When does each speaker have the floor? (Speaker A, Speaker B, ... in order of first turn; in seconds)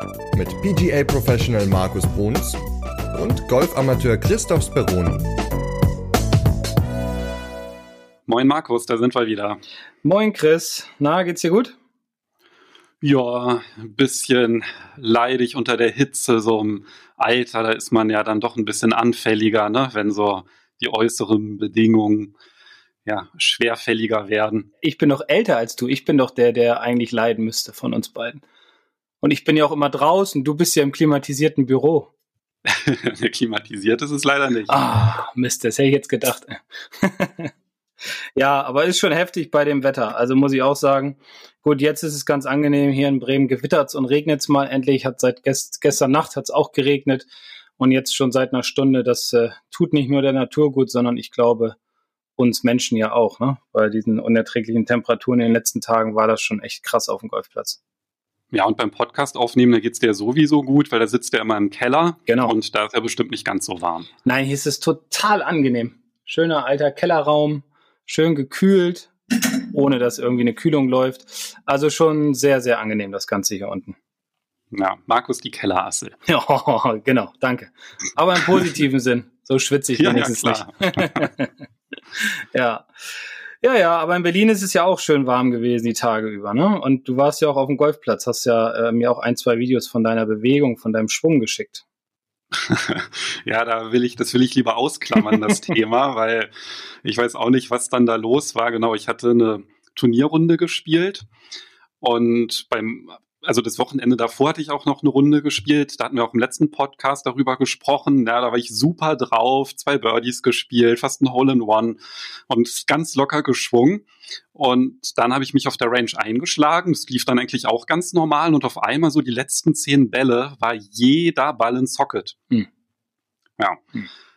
Speaker A: 0.3-5.3
Speaker B: 8.3-9.6, 13.0-22.3, 23.1-24.7, 32.6-34.8, 58.5-64.1, 74.7-76.2, 80.0-81.3, 92.5-96.5, 97.0-101.3, 102.0-112.0, 112.5-122.4
Speaker C: 10.0-11.8, 24.8-28.4, 29.2-32.1, 34.7-37.5, 38.4-47.3, 47.8-51.8, 52.4-57.8, 62.3-62.5, 64.2-74.0, 76.3-81.5, 82.2-82.9, 83.6-91.8